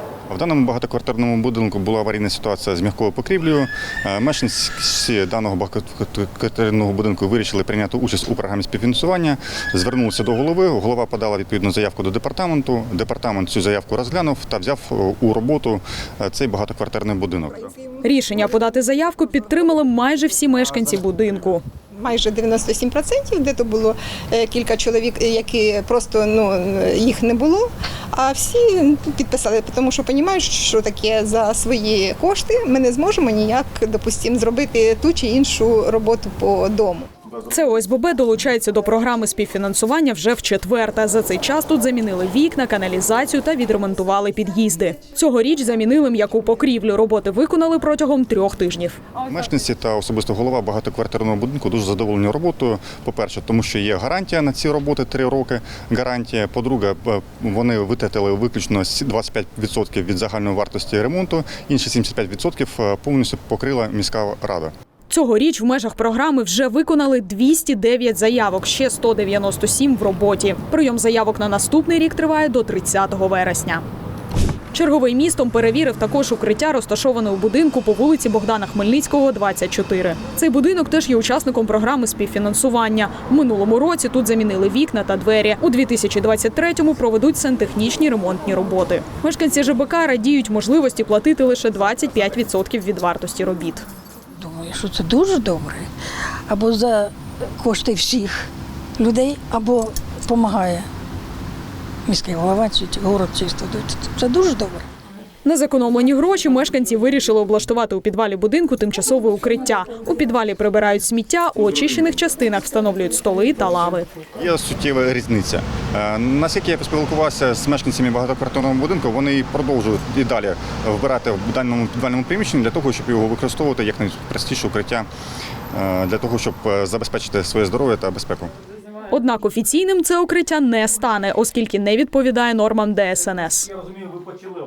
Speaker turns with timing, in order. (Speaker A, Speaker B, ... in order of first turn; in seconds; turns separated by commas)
Speaker A: 0.3-17.7, Speaker B: 17.7-18.0, Speaker C: 18.0-21.6, Speaker B: 21.9-37.1, Speaker C: 37.4-49.0, Speaker A: 49.2-64.7, Speaker C: 65.1-73.8, Speaker C: 74.7-93.8, Speaker D: 94.4-95.9, Speaker D: 96.5-100.9, Speaker D: 102.0-104.9, Speaker C: 105.4-114.1, Speaker A: 114.3-125.1, Speaker A: 125.7-128.5, Speaker C: 129.1-133.7